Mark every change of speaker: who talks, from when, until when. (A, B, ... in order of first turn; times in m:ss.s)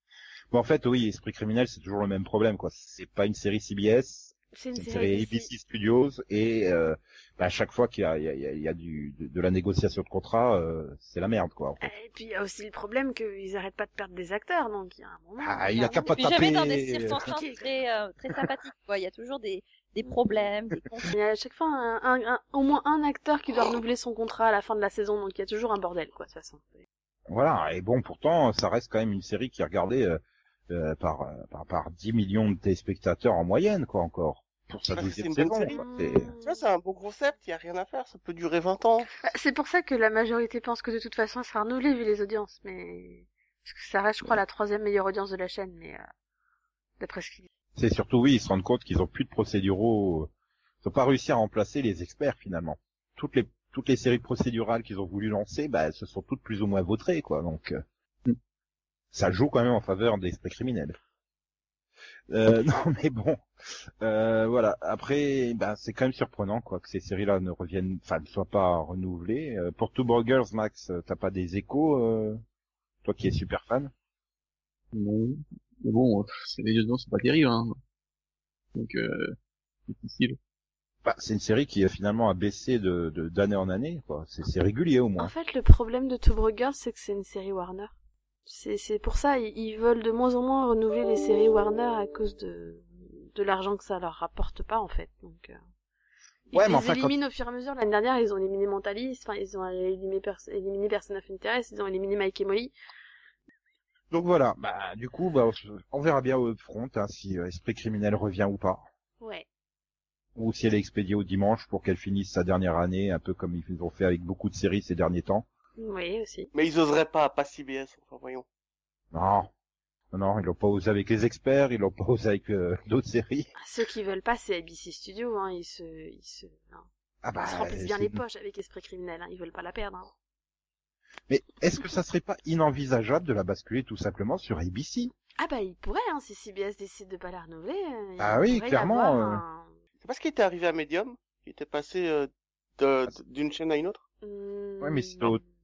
0:00.5-0:11.9 A
0:04.5-0:05.5 B
0:11.8-0:16.3 B
0:15.4-0:17.4 A
0:16.1-0:21.1 C
0:17.3-0:17.6 B
0:21.1-0:26.8 B
0:27.3-0:36.3 A
0:34.9-0:35.8 D
0:35.7-0:36.7 B
0:36.4-0:39.1 D
0:39.2-0:46.0 B
0:47.0-0:47.5 B
0:47.8-0:50.3 A
0:50.8-0:57.8 A
0:59.1-1:01.0 A
1:02.3-1:03.4 A
1:04.0-1:12.4 A
1:13.0-1:13.9 A
1:14.9-1:17.8 E
1:18.8-1:19.4 E
1:19.9-1:20.4 E
1:21.0-1:25.3 A
1:25.2-1:27.9 B
1:28.5-1:35.6 B
1:36.5-1:42.7 B
1:36.5-1:37.2 A
1:44.1-1:48.8 A
1:49.2-1:49.5 B
1:50.4-1:55.5 A
1:55.8-1:56.5 B
1:56.5-1:58.4 D
1:59.1-1:59.5 A
2:00.1-2:03.5 A
2:03.6-2:06.9 B
2:07.2-2:08.2 A
2:07.4-2:10.1 B
2:11.3-2:15.1 A
2:15.4-2:19.7 B
2:18.2-2:19.4 A
2:20.0-2:24.0 D
2:24.2-2:25.4 B
2:24.8-2:25.4 A